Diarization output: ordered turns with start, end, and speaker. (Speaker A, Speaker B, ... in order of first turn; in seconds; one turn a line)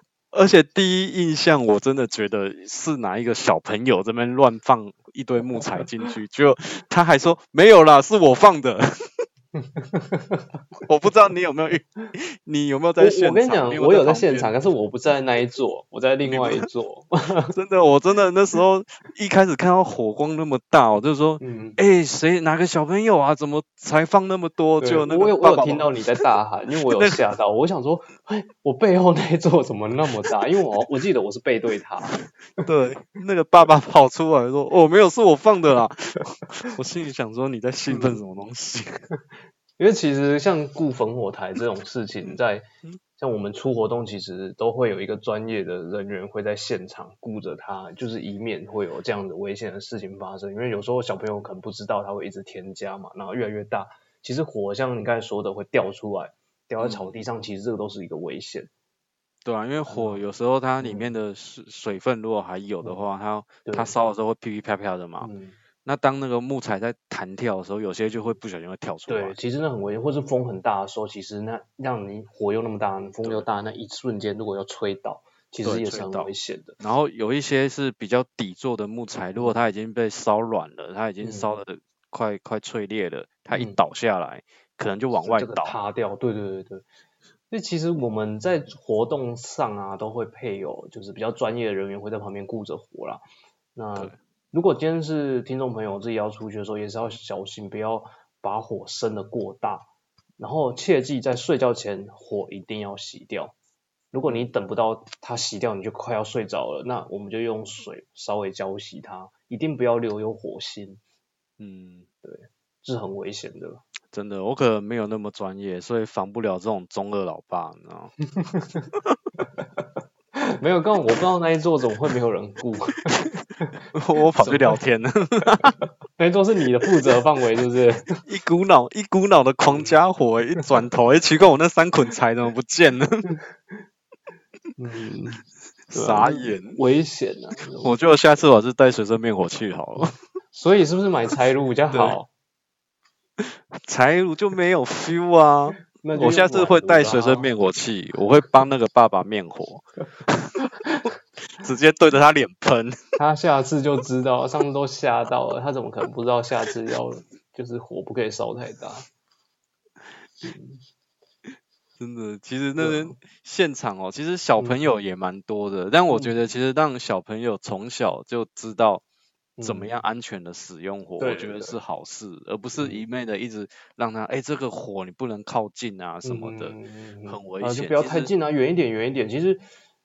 Speaker A: 0.3-9.1
Speaker B: 9.6-10.4
Speaker A: 10.9-14.5
Speaker B: 13.0-17.5
Speaker A: 16.2-16.6
Speaker A: 17.5-25.9
Speaker B: 21.4-21.8
Speaker B: 24.8-32.7
Speaker A: 26.9-27.2
Speaker A: 32.6-39.0
Speaker B: 37.9-38.2
Speaker B: 39.8-42.6
Speaker B: 43.2-58.7
Speaker A: 56.8-57.1
Speaker A: 59.4-65.3
Speaker B: 59.9-60.2
Speaker B: 60.8-61.1
Speaker B: 63.6-63.9
Speaker B: 65.2-65.6
Speaker A: 65.8-69.4
Speaker B: 69.1-76.8
Speaker A: 75.6-85.7
Speaker B: 81.2-81.5
Speaker B: 83.5-83.8
Speaker B: 85.2-86.8
Speaker B: 87.5-93.2
Speaker B: 93.7-99.9
Speaker B: 100.4-103.5
Speaker B: 104.1-111.0
Speaker A: 104.3-104.5
Speaker A: 111.6-112.1
Speaker B: 112.2-113.8
Speaker A: 114.1-118.1
Speaker B: 118.4-118.9
Speaker B: 120.3-123.7
Speaker A: 123.9-125.8
Speaker B: 124.4-124.8
Speaker B: 126.2-128.1
Speaker A: 128.2-133.3
Speaker B: 134.8-135.4
Speaker A: 135.9-136.8
Speaker B: 135.9-137.9
Speaker A: 137.8-140.2
Speaker B: 140.5-142.3
Speaker A: 143.4-150.6
Speaker B: 146.0-147.5
Speaker B: 150.6-151.1
Speaker A: 151.5-153.0
Speaker B: 153.2-159.0
Speaker B: 160.4-160.8
Speaker A: 162.0-169.0
Speaker B: 162.8-163.1
Speaker B: 166.1-166.4
Speaker B: 169.6-169.9
Speaker A: 169.6-176.7
Speaker B: 171.2-171.8
Speaker B: 172.8-173.0
Speaker B: 176.2-179.6
Speaker A: 177.3-178.3